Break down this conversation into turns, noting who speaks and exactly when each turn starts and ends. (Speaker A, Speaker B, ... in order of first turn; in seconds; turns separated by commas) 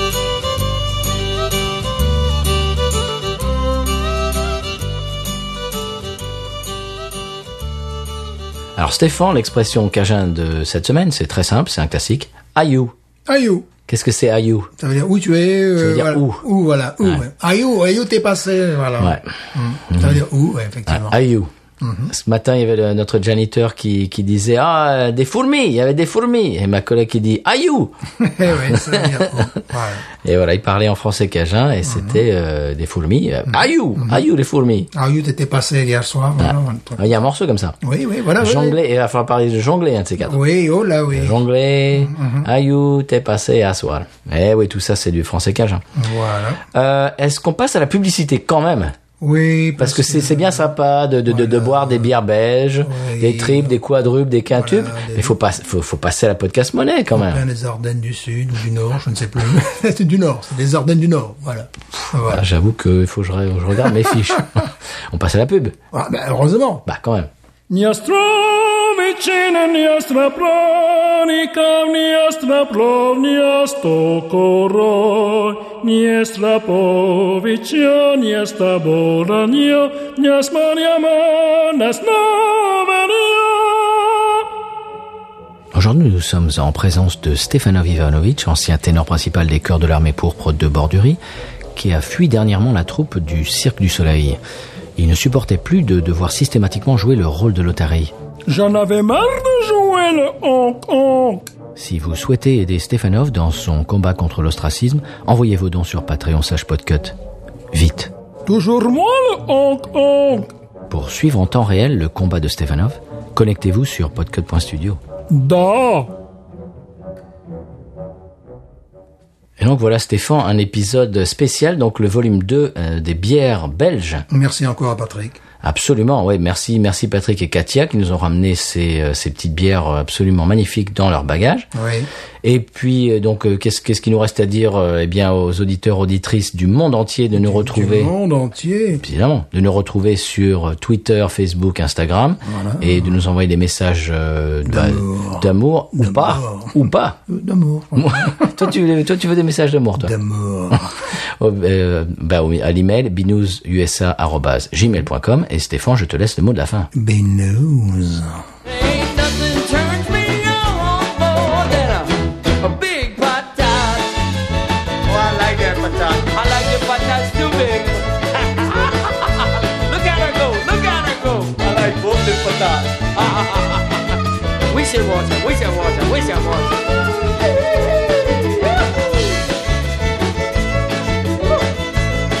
Speaker A: 8.8-12.9, Speaker B: 13.3-13.7, Speaker A: 13.9-14.7, Speaker B: 14.8-21.2, Speaker A: 15.8-16.4, Speaker A: 19.0-19.3, Speaker A: 19.9-20.2, Speaker A: 20.9-21.5, Speaker B: 21.8-22.1, Speaker A: 22.1-27.9, Speaker B: 28.2-30.1, Speaker A: 28.7-29.3, Speaker A: 30.2-34.9, Speaker B: 31.8-32.2, Speaker B: 34.0-34.2, Speaker B: 34.9-37.0, Speaker A: 36.4-37.8, Speaker B: 37.8-38.8, Speaker A: 38.4-40.4, Speaker B: 40.2-41.4, Speaker A: 41.1-45.8, Speaker B: 41.9-42.5, Speaker B: 46.0-46.6, Speaker A: 46.7-49.0, Speaker B: 49.2-50.7, Speaker A: 49.8-57.4, Speaker B: 51.3-52.1, Speaker B: 52.8-53.8, Speaker B: 54.5-55.4, Speaker B: 57.1-62.4, Speaker A: 62.2-65.8, Speaker B: 65.9-66.8, Speaker A: 66.8-67.3, Speaker C: 67.7-84.3, Speaker A: 85.7-91.2, Speaker A: 91.7-94.4, Speaker A: 95.0-98.1, Speaker C: 98.5-101.4, Speaker A: 101.8-107.2, Speaker A: 107.7-108.1, Speaker C: 108.5-110.5, Speaker A: 110.9-115.0, Speaker C: 115.3-116.1, Speaker A: 119.6-124.2, Speaker B: 124.3-125.4, Speaker A: 125.6-131.7, Speaker B: 131.7-132.1, Speaker A: 132.4-138.1, Speaker B: 137.3-139.0, Speaker A: 139.0-147.2, Speaker B: 142.4-143.1, Speaker B: 144.7-148.7, Speaker A: 147.9-150.1, Speaker B: 150.0-150.9, Speaker A: 151.4-156.9, Speaker B: 156.9-158.4, Speaker D: 158.6-164.2, Speaker D: 165.0-174.1, Speaker D: 174.7-179.3